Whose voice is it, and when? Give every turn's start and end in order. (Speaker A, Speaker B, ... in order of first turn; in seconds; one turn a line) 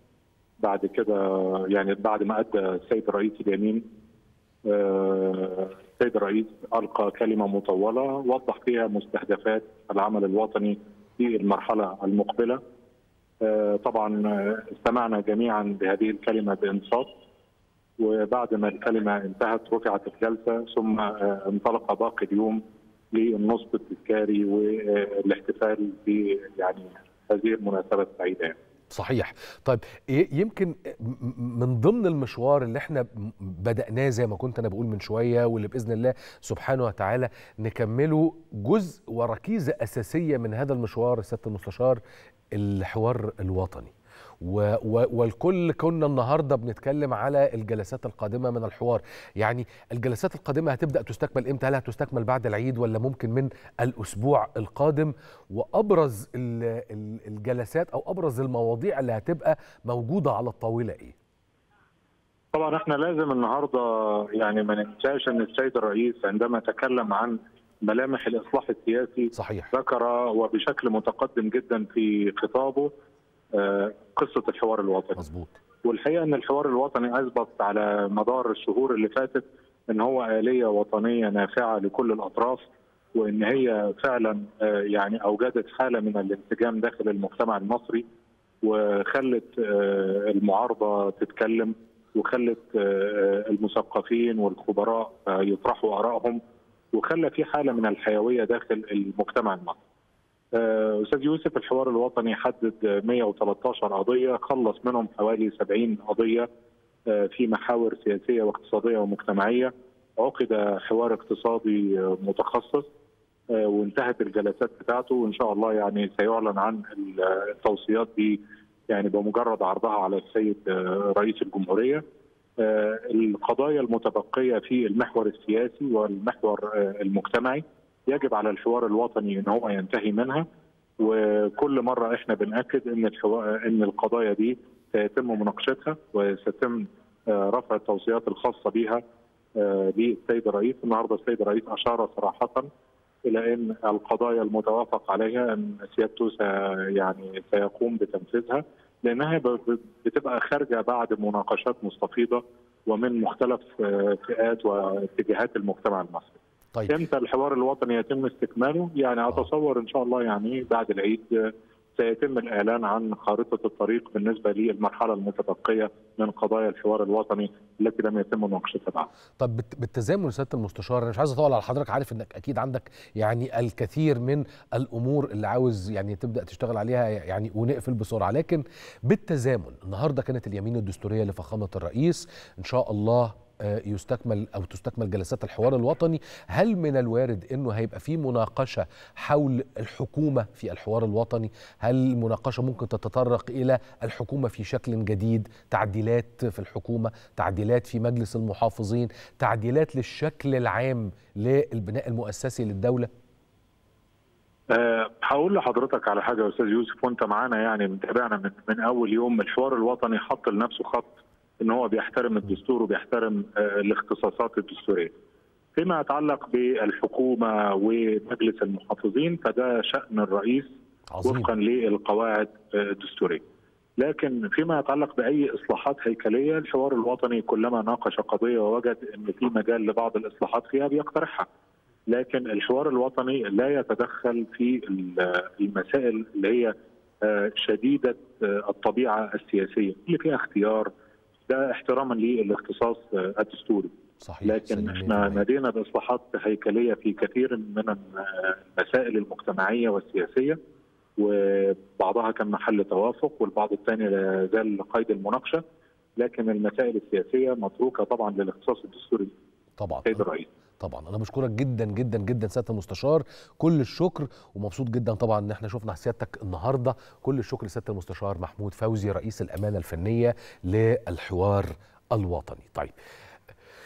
Speaker A: 0.6-3.8
Speaker A: 4.7-12.6
Speaker A: 13.4-17.1
Speaker A: 18.0-22.6
Speaker A: 23.1-28.6
Speaker B: 28.9-42.0
Speaker B: 42.5-61.1
Speaker A: 62.5-72.9
Speaker B: 69.3-69.7
Speaker A: 73.5-75.2
Speaker B: 75.2-75.5
Speaker A: 75.8-82.6
Speaker A: 83.1-88.0
Speaker A: 88.6-96.4
Speaker A: 96.9-99.8
Speaker A: 100.5-106.5
Speaker A: 107.1-112.8
Speaker A: 113.5-122.0
Speaker A: 122.6-130.4
Speaker A: 131.0-139.0
Speaker A: 139.6-142.7
Speaker A: 143.3-156.4
Speaker A: 156.9-169.1
Speaker B: 169.4-203.1
Speaker A: 204.7-211.1
Speaker A: 211.6-215.1
Speaker A: 215.8-220.7
Speaker B: 221.1-221.5
Speaker A: 221.2-223.4
Speaker A: 224.0-231.5
Speaker A: 232.1-240.9
Speaker A: 241.5-243.9
Speaker B: 244.2-245.4
Speaker A: 244.4-250.6
Speaker A: 251.2-255.6
Speaker A: 256.2-259.3
Speaker B: 259.8-260.2
Speaker A: 260.1-260.5
Speaker B: 260.8-272.9